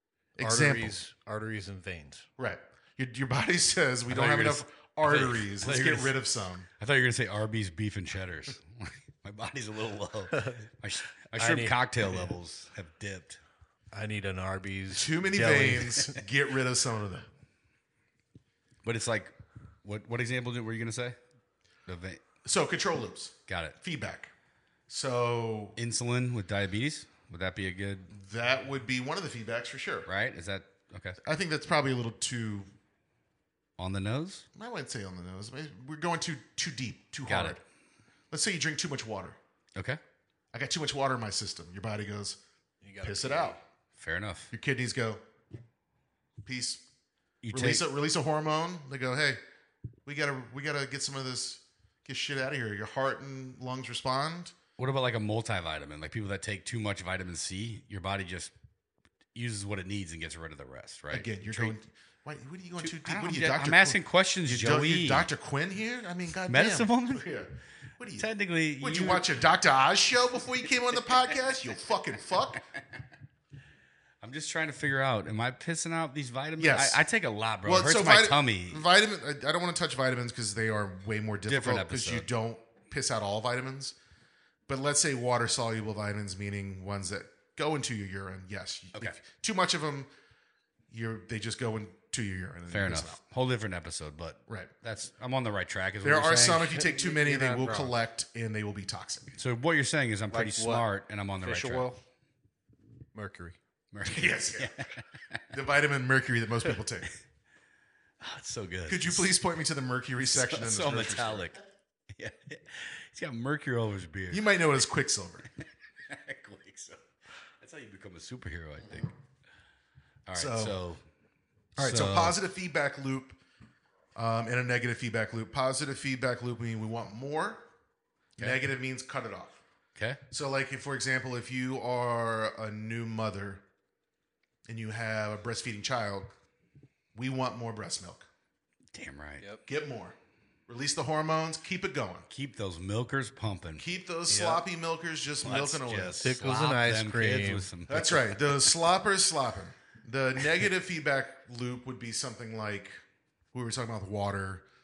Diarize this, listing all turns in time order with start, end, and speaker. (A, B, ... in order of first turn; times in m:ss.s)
0:00.4-0:01.0 A
0:00.4-0:02.3 B
0:02.4-0:06.7 A
0:04.1-0:06.2 C
0:06.8-0:13.4 C
0:10.3-0:10.7 B
0:11.4-0:12.3 B
0:13.9-0:16.2 B
0:14.9-0:17.3 A
0:18.8-0:21.2 C
0:21.8-0:22.2 C
0:22.4-0:24.3 A
0:23.5-0:23.8 C
0:24.9-0:25.8 A
0:25.8-0:28.1 C
0:28.1-0:30.1 A
0:30.1-0:31.2 C
0:31.2-0:32.7 A
0:33.8-0:34.4 C
0:34.5-0:37.6 A
0:37.3-0:37.6 C
0:38.3-0:39.4 A
0:39.7-0:40.0 C
0:40.5-0:42.4 A
0:42.8-0:43.6 B
0:43.0-0:43.6 A
0:44.0-0:44.5 C
0:44.5-0:45.2 A
0:46.4-0:46.8 A
0:47.4-0:47.8 C
0:47.5-0:49.4 A
0:50.0-0:54.5 A
0:54.8-0:58.5 C
0:59.3-1:01.7 C
1:01.1-1:08.3 A
1:02.8-1:05.3 C
1:06.5-1:07.2 C
1:08.2-1:09.2 C
1:08.8-1:12.6 A
1:14.2-1:18.8 C
1:16.6-1:17.0 A
1:17.6-1:24.0 A
1:21.4-1:22.3 C
1:24.7-1:30.1 A
1:30.9-1:33.2 A
1:32.7-1:37.0 C
1:36.0-1:39.4 A
1:36.8-1:38.0 B
1:39.4-1:41.9 C
1:40.3-1:40.9 B
1:41.4-1:42.0 B
1:43.1-1:43.6 B
1:43.9-1:45.4 C
1:44.0-1:44.8 A
1:45.5-1:47.1 A
1:48.2-1:49.3 C
1:48.9-1:51.5 A
1:50.3-1:54.5 C
1:54.3-1:55.5 A
1:55.6-1:57.1 C
1:57.6-1:59.1 C
2:00.3-2:01.0 C
2:00.3-2:00.8 A
2:01.8-2:02.4 C
2:01.8-2:03.4 A
2:04.1-2:07.6 A
2:08.4-2:09.6 A
2:09.9-2:10.2 C
2:10.3-2:13.6 A
2:14.6-2:16.3 A
2:17.1-2:18.3 A
2:18.9-2:19.5 C
2:19.6-2:20.2 A
2:20.7-2:22.3 A
2:22.3-2:23.8 C
2:23.8-2:26.2 A
2:24.3-2:24.6 B
2:25.4-2:28.7 C
2:26.2-2:27.7 B
2:27.9-2:33.0 A
2:33.5-2:34.6 A